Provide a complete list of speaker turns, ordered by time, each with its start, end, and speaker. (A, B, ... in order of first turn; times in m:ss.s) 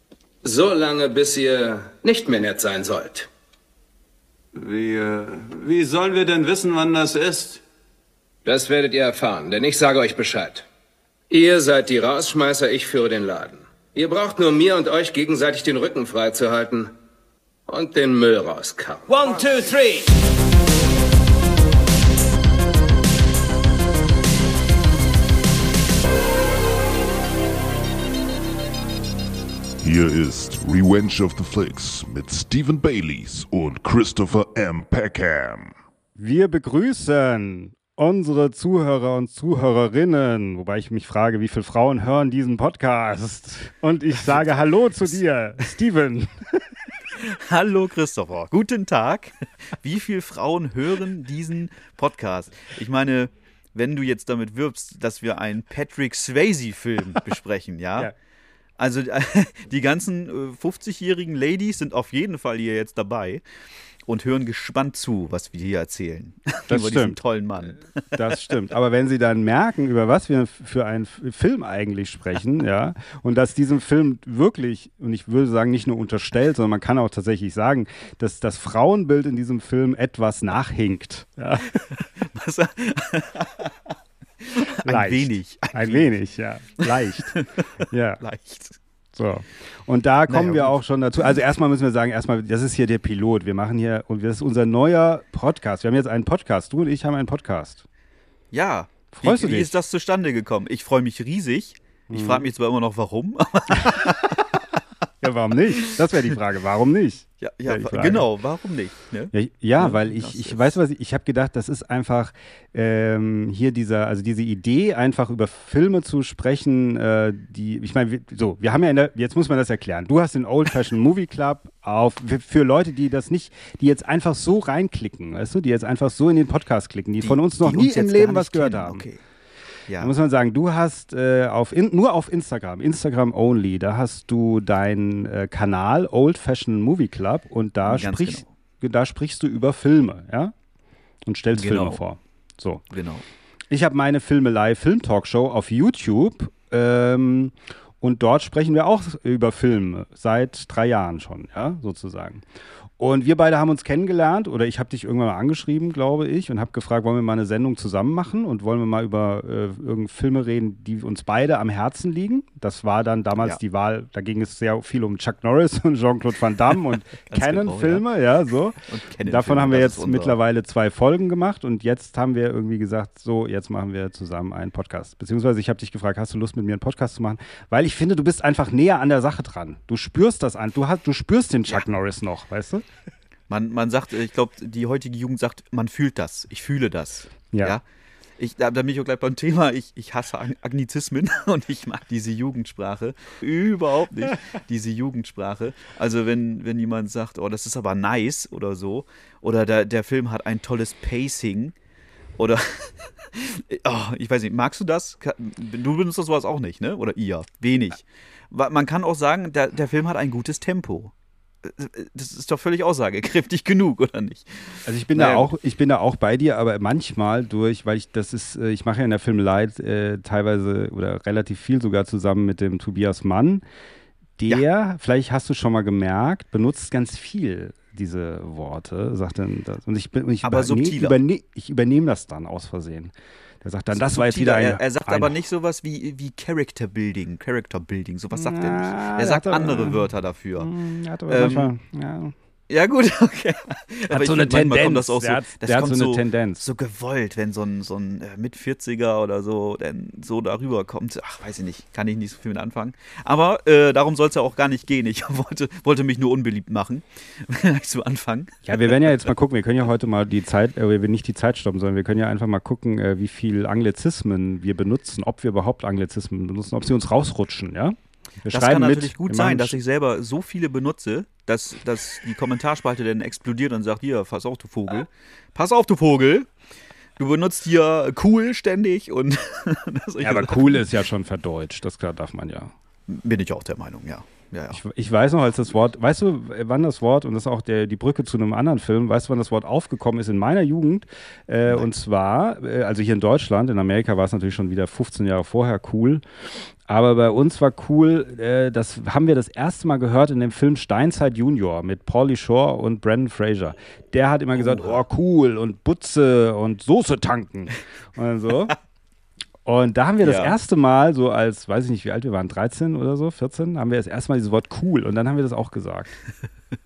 0:00.4-0:03.3 A
0:04.6-0:07.6 B
0:08.4-0:10.6 A
0:11.3-0:16.9 A
0:17.7-0:20.0 A
0:29.8-0:35.7 C
0:36.2-0:46.7 D
0:47.1-0:58.1 E
0:58.8-1:03.4 E
1:04.1-1:08.2 E
1:06.7-1:07.2 D
1:08.1-1:21.7 D
1:21.9-1:23.7 E
1:24.4-1:26.1 E
1:24.8-1:27.3 D
1:26.8-1:27.5 E
1:27.9-1:28.2 D
1:28.2-1:28.8 E
1:29.1-1:37.8 D
1:30.3-1:30.8 E
1:38.5-1:44.6 E
1:39.1-1:39.8 D
1:42.1-1:42.5 D
1:43.8-1:44.1 D
1:45.2-1:48.3 D
1:47.4-1:50.8 E
1:49.3-2:09.0 D
2:07.2-2:09.2 E
2:09.9-2:10.1 E
2:10.0-2:20.5 D
2:17.8-2:18.5 E
2:21.3-2:22.8 D
2:21.5-2:22.0 E
2:22.9-2:23.2 E
2:23.7-2:32.4 D
2:33.0-3:02.8 D
2:47.3-2:48.0 E
2:48.9-2:50.4 E
3:03.5-3:07.8 E
3:08.4-3:21.8 E
3:22.4-3:31.1 E
3:31.6-3:35.5 E
3:34.9-3:43.6 D
3:44.4-3:55.3 D
3:50.4-3:51.2 E
3:53.9-4:00.7 E
3:58.4-4:02.3 D
4:01.3-4:01.7 E
4:02.7-4:19.1 E
4:04.1-4:06.6 D
4:18.7-4:29.8 D
4:28.5-4:36.5 E
4:37.2-4:40.8 E
4:40.2-4:42.7 D
4:43.1-4:44.8 E
4:44.7-4:56.2 D
4:56.9-5:08.7 D
5:04.6-5:05.0 E
5:09.6-5:16.2 D
5:10.2-5:10.6 E